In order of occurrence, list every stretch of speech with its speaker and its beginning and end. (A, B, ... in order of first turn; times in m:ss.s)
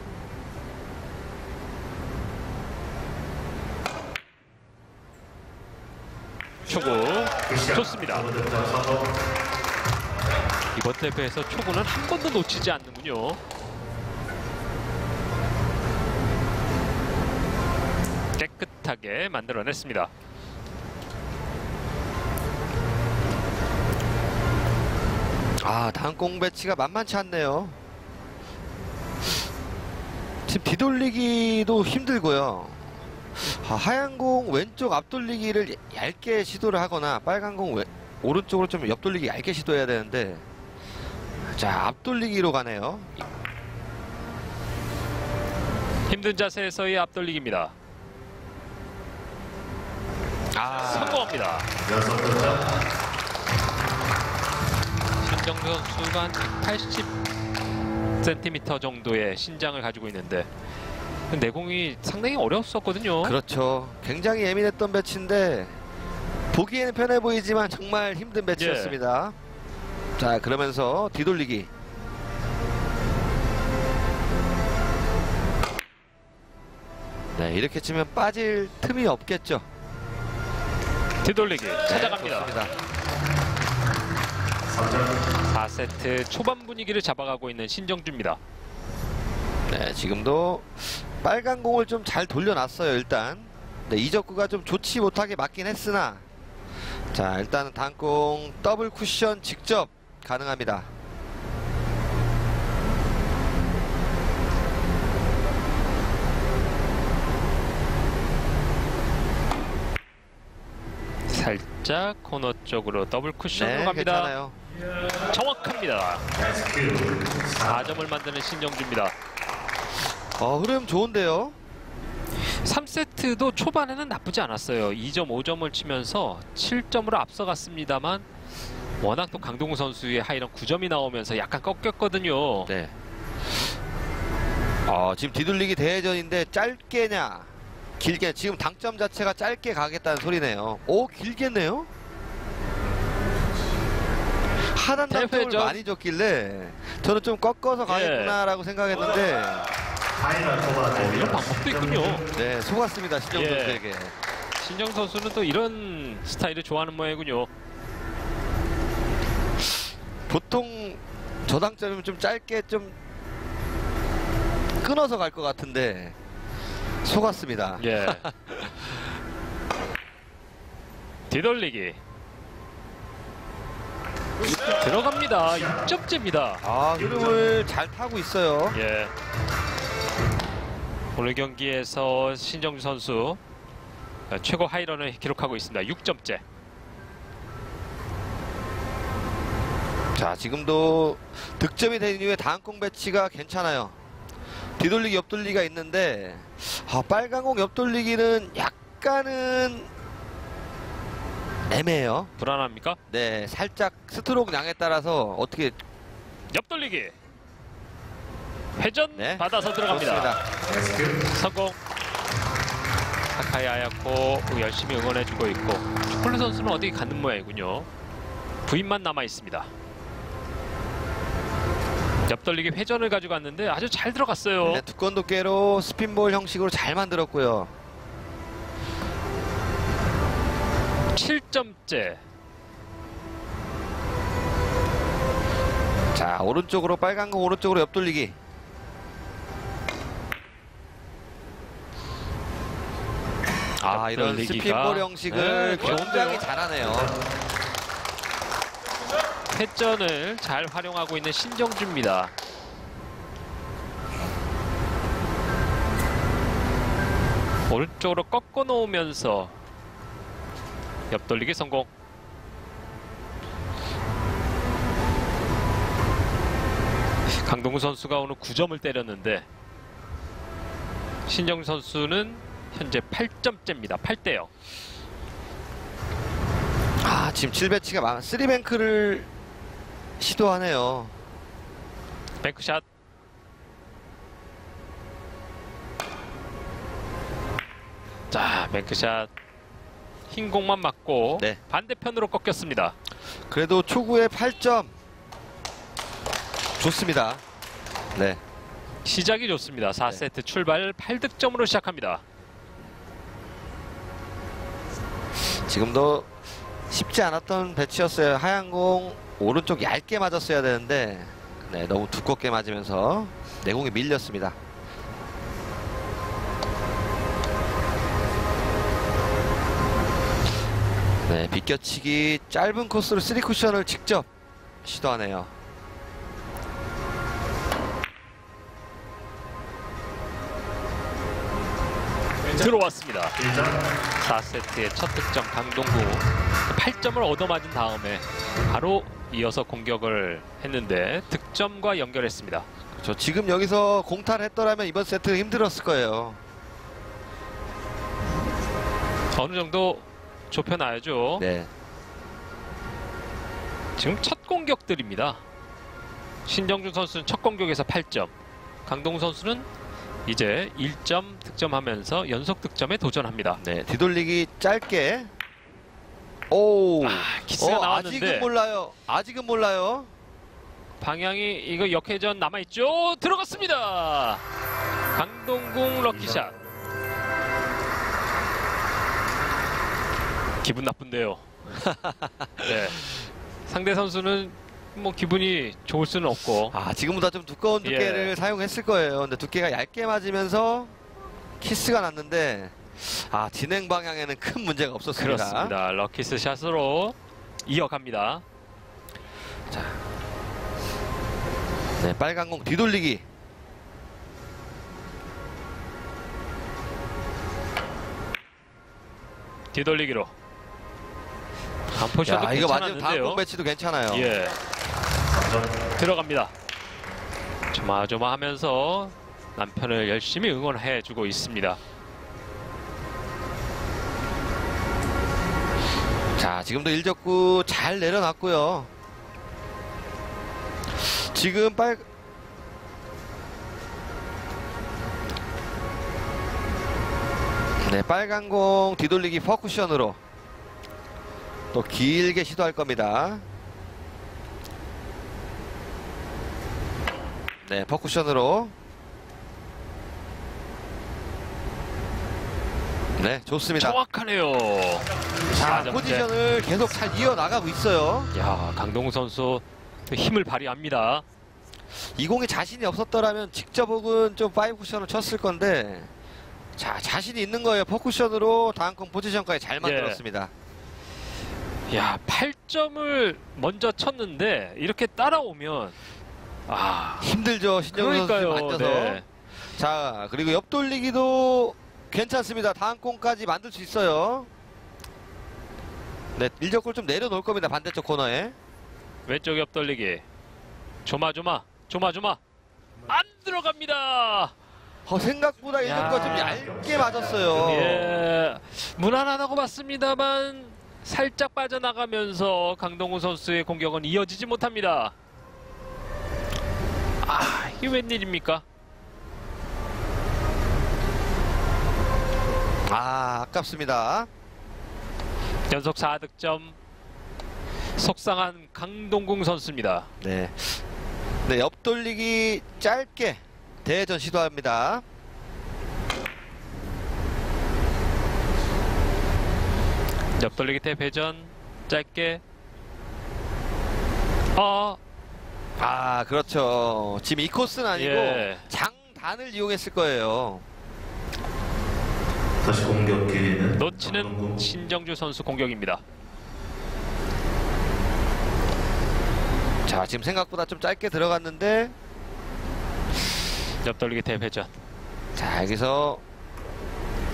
0:06.7-0:08.4 A
0:08.1-0:09.0 B
0:10.7-0:13.4 A
0:18.4-0:20.1 A
0:25.6-0:27.8 C
0:30.5-0:40.4 C
0:41.5-0:43.1 C
0:46.1-0:47.7 A
0:50.5-0:51.3 C
0:50.7-0:51.7 A
0:51.9-0:52.6 B
0:55.2-0:57.1 A
0:58.2-1:00.5 A
1:01.3-1:03.4 A
1:03.2-1:05.8 C
1:06.5-1:09.4 C
1:08.6-1:09.0 A
1:10.2-1:11.7 C
1:17.3-1:19.7 C
1:21.2-1:22.5 A
1:21.9-1:22.7 C
1:24.8-1:25.1 B
1:25.5-1:28.4 A
1:29.7-1:36.2 C
1:37.1-1:40.9 C
1:51.3-1:54.3 A
1:53.5-1:54.6 C
1:55.3-1:56.2 A
1:56.5-1:57.6 B
1:57.6-1:59.2 A
2:00.4-2:01.6 C
2:02.5-2:08.3 A
2:09.0-2:12.7 A
2:12.7-2:12.9 C
2:14.9-2:21.9 C
2:24.7-2:29.7 C
2:25.1-2:25.8 A
2:27.9-2:28.4 A
2:30.2-2:31.1 B
2:30.8-2:32.3 A
2:32.3-2:34.1 C
2:33.3-2:33.8 A
2:34.6-2:37.5 A
2:40.3-2:43.0 C
2:44.8-2:46.2 C
2:47.0-2:49.0 C
2:47.8-2:48.3 A
2:51.3-2:52.0 A
2:54.7-2:56.6 A
2:56.6-2:58.8 C
2:58.7-2:59.1 A
3:01.2-3:03.4 A
3:04.3-3:06.4 A
3:10.2-3:14.0 C
3:14.8-3:19.9 C
3:21.7-3:22.3 C
3:22.4-3:23.0 A
3:23.1-3:25.8 C
3:26.5-3:27.2 A
3:28.8-3:30.4 A
3:29.1-3:30.4 C
3:31.2-3:31.8 A
3:33.4-3:37.9 A
3:38.6-3:39.7 A
3:42.3-3:44.8 A
3:44.6-3:47.7 C
3:51.2-3:52.2 A
3:56.1-3:58.4 C
4:03.8-4:06.5 A
4:03.8-4:07.2 C
4:09.5-4:12.3 A
4:17.7-4:19.6 A
4:21.1-4:21.9 A
4:27.4-4:29.5 A
4:31.3-4:34.5 A
4:37.0-4:39.3 C
4:40.2-4:41.2 C
4:42.4-4:42.8 A
4:48.3-4:49.3 A
4:50.3-4:53.0 A
4:53.5-4:54.9 C
4:56.8-4:57.4 C
4:58.2-4:58.4 C
4:59.0-5:02.2 A
5:05.7-5:06.3 C
5:06.9-5:14.6 C
5:21.3-5:24.3 C
5:24.8-5:25.5 C
5:32.5-5:33.5 A
5:34.2-5:42.7 A
5:43.0-5:46.4 C
5:49.4-5:51.4 A
5:51.4-5:51.7 C
5:54.0-5:55.4 A
5:56.5-5:58.3 A
5:58.9-5:59.7 A
6:00.3-6:03.6 A
6:03.6-6:05.3 C
6:06.5-6:10.1 C
6:07.0-6:08.5 A
6:11.0-6:14.4 A
6:15.2-6:16.6 A
6:20.6-6:21.4 A
6:21.7-6:23.1 C
6:22.6-6:23.1 A
6:23.7-6:26.8 A
6:26.7-6:30.9 C
6:27.8-6:28.3 A
6:31.6-6:35.8 C
6:35.2-6:38.4 A
6:39.7-6:40.0 C
6:42.0-6:43.2 C
6:49.7-6:50.3 A
6:51.9-6:53.4 A
6:52.2-6:54.3 C
6:54.1-6:54.6 A
6:56.0-6:56.5 A
6:57.7-7:01.8 A
7:06.4-7:08.9 C
7:11.0-7:12.1 C
7:17.8-7:20.2 C
7:21.7-7:23.4 C
7:27.7-7:28.7 C
7:33.2-7:34.0 C
7:33.8-7:36.3 A
7:35.5-7:38.3 C
7:38.3-7:41.2 A
7:42.2-7:46.1 C
7:46.8-7:50.5 C
7:49.8-7:50.2 A
7:51.9-7:56.0 A
7:56.7-7:57.3 A
7:57.2-7:59.2 C
7:57.9-7:59.2 A
7:59.8-8:04.5 C
8:06.4-8:08.6 C
8:09.3-8:10.2 A
8:11.0-8:12.4 A
8:13.1-8:14.5 A
8:15.1-8:18.2 C
8:15.9-8:16.6 A
8:17.5-8:25.2 A
8:27.2-8:28.6 A
8:32.9-8:34.3 C
8:35.7-8:36.8 A
8:38.0-8:40.1 A
8:40.2-8:40.8 C
8:41.4-8:45.0 C
8:50.4-8:52.4 A
8:54.6-8:55.0 A
8:55.8-9:00.6 C
8:57.9-8:58.7 A
9:02.6-9:04.4 B
9:03.8-9:06.0 A
9:09.9-9:11.9 C
9:13.8-9:14.7 A
9:15.4-9:16.2 C